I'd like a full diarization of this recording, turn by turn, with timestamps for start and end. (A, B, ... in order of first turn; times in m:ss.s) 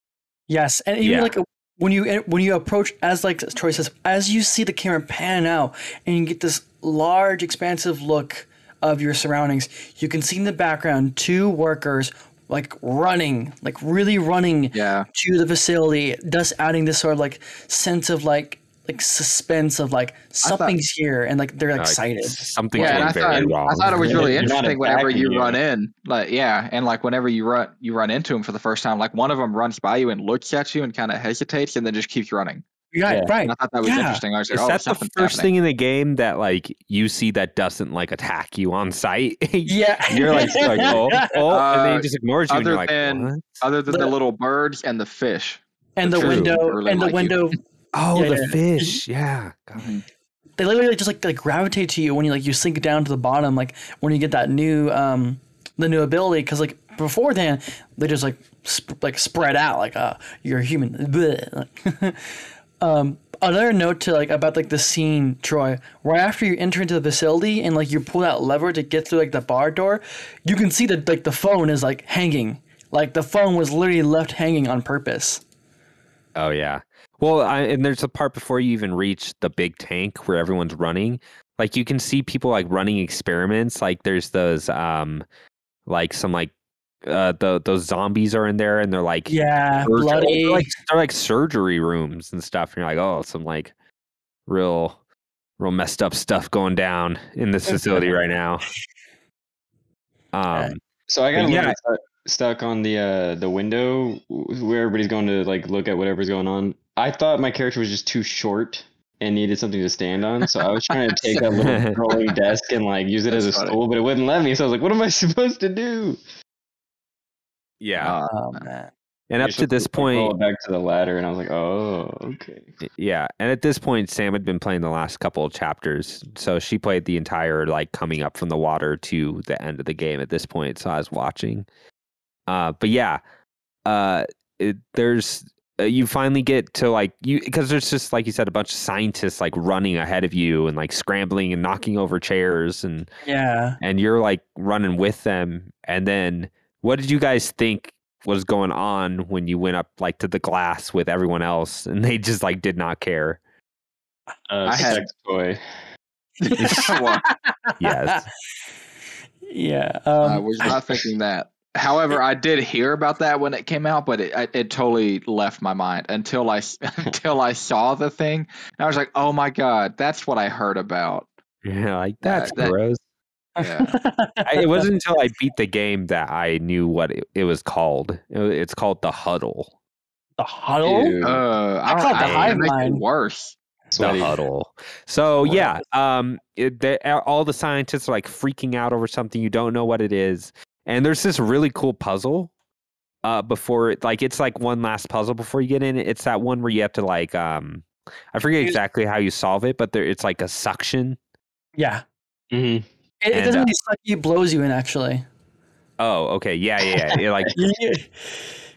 0:00.5-0:23.0 A
0:01.0-0:01.3 B
0:14.7-0:15.1 C
0:20.4-0:20.8 C
0:21.8-0:24.5 B
0:22.8-0:32.6 C
0:22.8-0:25.6 D
0:32.9-0:34.2 A
0:33.1-0:33.3 D
0:33.4-0:35.5 C
0:34.5-0:43.6 B
0:39.6-0:41.4 A
0:41.5-0:47.6 C
0:46.0-0:47.6 A
0:46.2-0:46.6 B
0:47.9-0:49.8 B
0:48.1-0:49.0 A
0:49.8-0:50.0 C
0:50.6-1:15.4 A
1:16.4-1:25.2 B
1:25.8-1:26.5 B
1:27.0-1:33.7 B
1:29.3-1:30.8 A
1:34.5-1:35.0 B
1:35.6-1:38.6 B
1:40.3-1:40.8 B
1:41.1-1:56.2 D
1:41.3-1:41.8 B
1:51.6-1:52.0 B
1:53.3-1:53.8 C
1:57.8-1:58.2 B
1:58.0-1:58.6 C
1:58.3-1:58.9 A
1:59.3-2:00.3 B
1:59.4-2:02.7 D
2:02.9-2:11.6 B
2:12.5-2:13.2 B
2:13.8-2:23.1 B
2:23.2-2:23.8 A
2:23.8-2:33.4 B
2:34.5-2:35.6 D
2:34.6-2:35.0 C
2:36.4-2:37.2 C
2:36.4-2:38.2 A
2:36.6-2:36.9 B
2:37.8-2:38.2 B
2:39.5-2:40.8 A
2:40.2-2:51.3 C
2:51.6-2:53.0 B
2:52.2-2:52.7 C
2:53.6-2:54.8 A
2:53.6-2:53.9 C
2:54.4-2:59.7 B
3:00.4-3:01.2 A
3:00.8-3:01.4 D
3:01.2-3:03.5 C
3:01.8-3:03.0 A
3:02.2-3:02.6 B
3:03.9-3:04.4 D
3:04.0-3:12.5 B
3:13.2-3:21.2 B
3:21.8-3:22.0 A
3:22.5-3:22.8 D
3:23.2-3:25.2 A
3:23.3-3:23.7 B
3:26.0-3:27.5 B
3:27.0-3:27.6 D
3:27.6-3:28.4 A